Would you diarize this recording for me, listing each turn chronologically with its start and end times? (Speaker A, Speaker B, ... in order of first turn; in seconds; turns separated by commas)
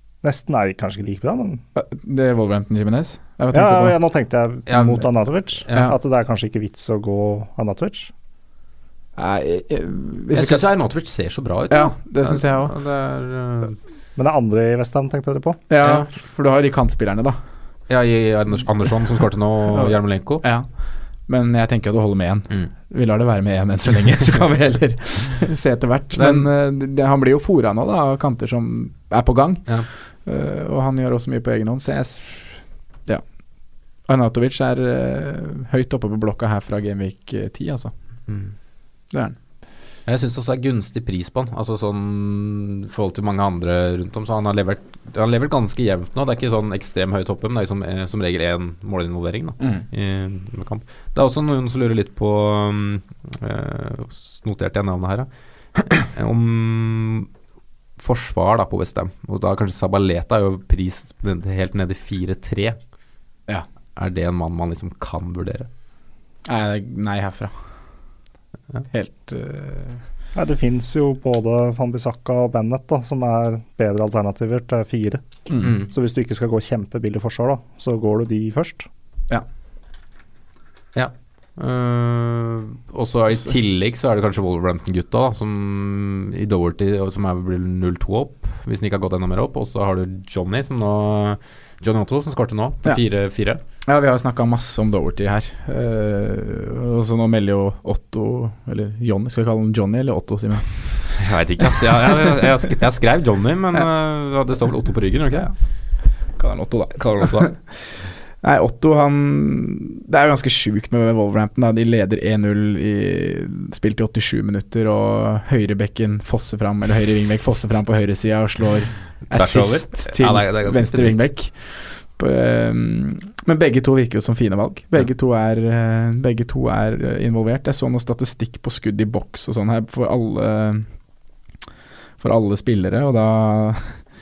Speaker A: 0.2-1.6, Speaker B: 1.8-4.0, Speaker A: 3.5-8.1, Speaker C: 4.7-5.1, Speaker B: 9.2-10.7, Speaker C: 10.3-13.8, Speaker B: 11.7-12.7, Speaker A: 14.2-15.6, Speaker B: 15.7-17.4, Speaker C: 15.8-16.1, Speaker C: 17.9-20.5, Speaker B: 19.7-20.7, Speaker B: 21.3-33.2, Speaker C: 26.1-26.5, Speaker B: 34.1-37.9, Speaker C: 38.3-38.5, Speaker B: 39.1-39.4, Speaker C: 40.1-55.3, Speaker B: 49.6-49.9, Speaker C: 55.9-57.3, Speaker C: 58.0-62.8, Speaker C: 64.0-65.7, Speaker B: 66.5-67.5, Speaker B: 68.9-70.0, Speaker A: 70.3-75.2, Speaker B: 75.5-75.8, Speaker C: 75.6-75.9, Speaker A: 75.8-78.9, Speaker C: 81.0-93.6, Speaker B: 93.8-101.1, Speaker C: 101.2-105.5, Speaker B: 106.4-107.8, Speaker C: 107.0-107.5, Speaker B: 108.4-130.9, Speaker C: 119.3-121.2, Speaker B: 132.2-134.0